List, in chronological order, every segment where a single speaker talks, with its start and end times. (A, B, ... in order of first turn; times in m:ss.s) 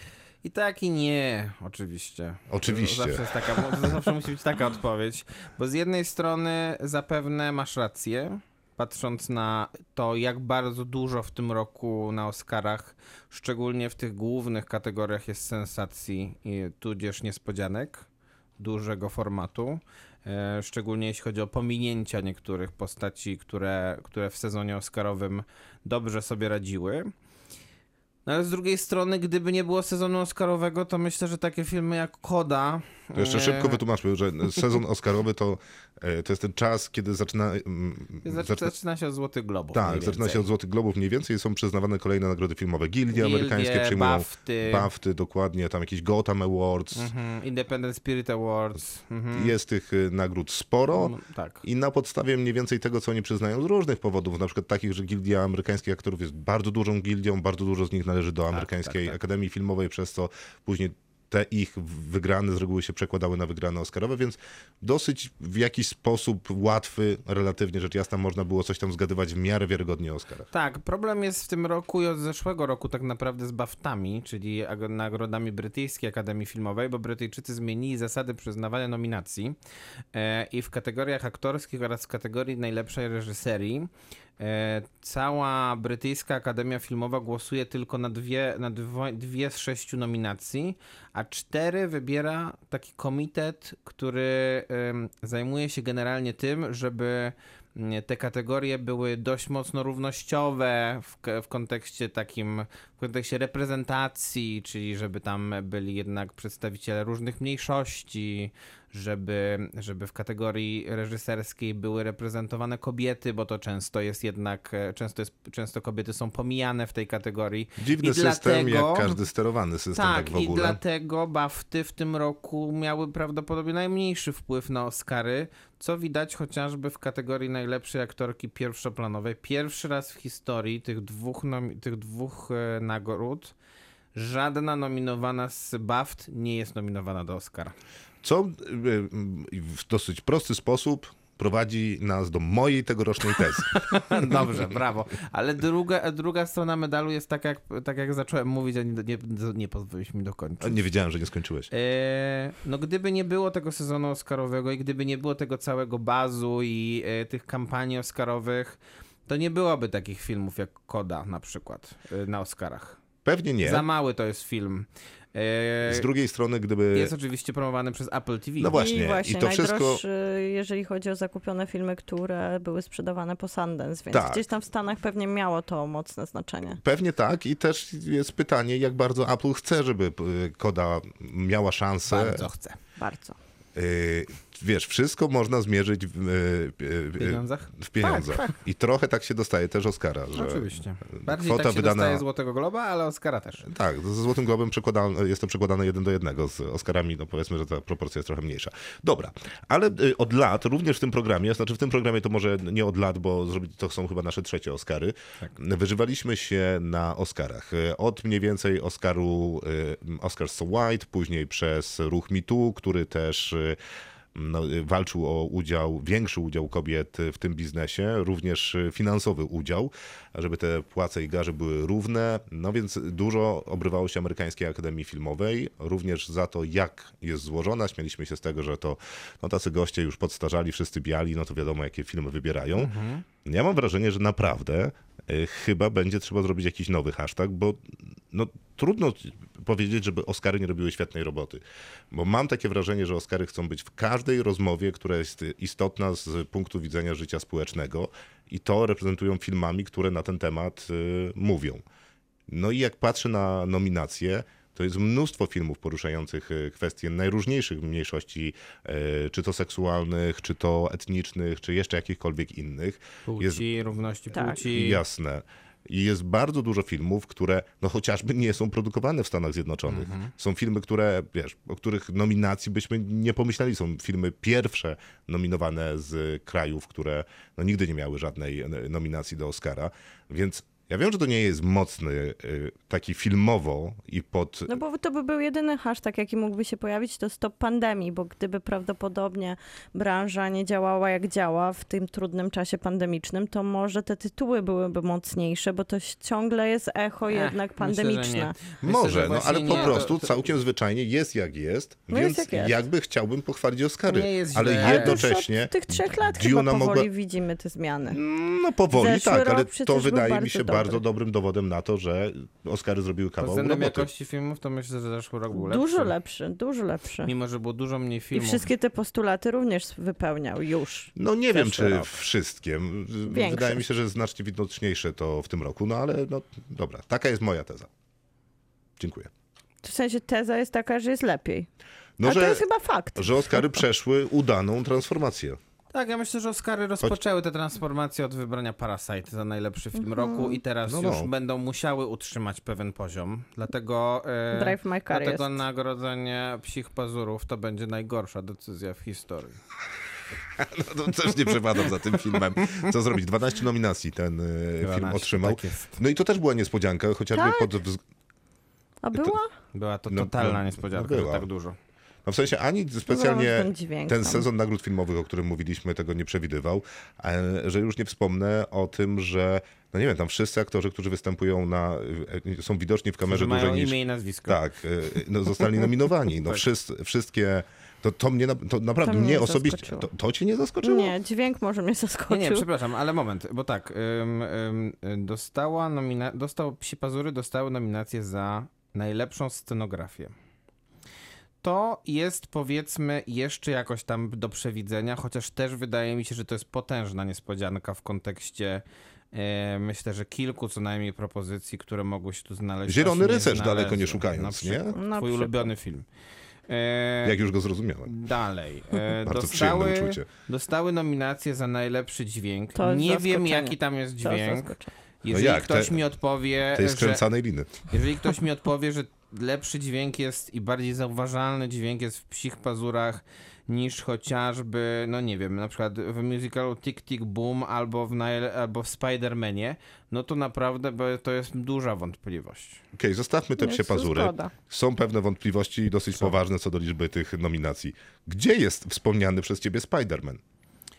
0:00.4-0:18.1 A
0:02.5-0:04.0 B
0:18.6-0:27.1 A
0:28.3-0:33.8 A
0:33.2-0:38.7 B
0:38.2-0:40.5 A
0:39.7-0:47.1 B
0:43.1-0:44.9 A
0:47.0-0:49.5 A
0:49.3-1:10.5 B
0:50.9-0:51.6 A
0:58.5-0:59.2 A
1:10.5-1:19.6 A
1:20.1-1:59.2 A
1:57.8-2:00.8 B
1:59.9-2:13.5 A
2:14.2-2:17.8 A
2:18.2-2:24.6 B
2:23.7-2:30.8 A
2:30.6-2:31.7 B
2:31.7-2:43.0 A
2:43.2-2:43.9 B
2:43.6-2:46.1 A
2:45.8-2:47.1 B
2:46.9-2:48.8 A
2:48.6-2:50.0 B
2:48.7-2:56.8 C
2:54.1-2:54.4 B
2:56.8-3:02.5 B
3:02.1-3:02.8 A
3:03.0-3:03.4 C
3:03.8-3:12.2 B
3:07.2-3:08.4 A
3:08.0-3:08.4 C
3:10.4-3:13.6 A
3:13.6-3:33.8 B
3:34.3-3:52.9 B
3:52.8-3:53.2 A
3:53.4-4:11.8 B
4:12.5-4:23.6 B
4:23.2-4:25.0 A
4:24.3-4:24.6 C
4:24.5-4:44.8 B
4:29.9-4:30.3 A
4:44.7-4:58.6 C
4:57.3-5:00.4 A
4:58.8-5:07.1 B
4:59.7-5:00.0 C
5:02.1-5:02.8 C
5:04.1-5:05.2 A
5:04.8-5:08.2 C
5:08.1-5:14.1 B
5:08.9-5:11.0 C
5:13.4-5:16.1 A
5:15.5-5:17.3 C
5:17.2-5:18.7 A
5:18.3-5:22.0 C
5:21.2-5:27.9 B
5:21.6-5:21.9 A
5:23.3-5:23.8 C
5:29.0-5:29.3 B
5:29.8-5:31.7 C
5:32.2-5:32.6 B
5:32.2-5:33.6 C
5:33.2-5:35.6 B
5:35.9-5:49.6 A
5:40.0-5:40.6 C
5:40.9-5:41.3 B
5:44.5-5:45.6 C
5:50.6-5:58.0 B
5:54.8-5:56.0 A
5:57.3-5:57.7 C
5:59.0-5:59.5 C
5:59.7-6:01.8 A
6:00.1-6:01.5 B
6:02.2-6:21.2 B
6:03.1-6:04.5 C
6:13.3-6:14.6 A
6:19.0-6:20.1 C
6:20.8-6:22.6 C
6:22.3-6:30.3 A
6:31.6-6:46.0 A
6:42.9-6:45.0 B
6:45.0-6:45.7 C
6:46.7-6:47.4 A
6:47.2-6:48.1 B
6:48.0-6:57.2 A
6:49.1-6:50.3 B
6:52.8-6:54.9 C
6:55.3-6:56.0 B
6:56.7-6:57.8 B
6:57.8-7:12.8 A
7:12.9-7:20.4 B
7:13.6-7:14.5 C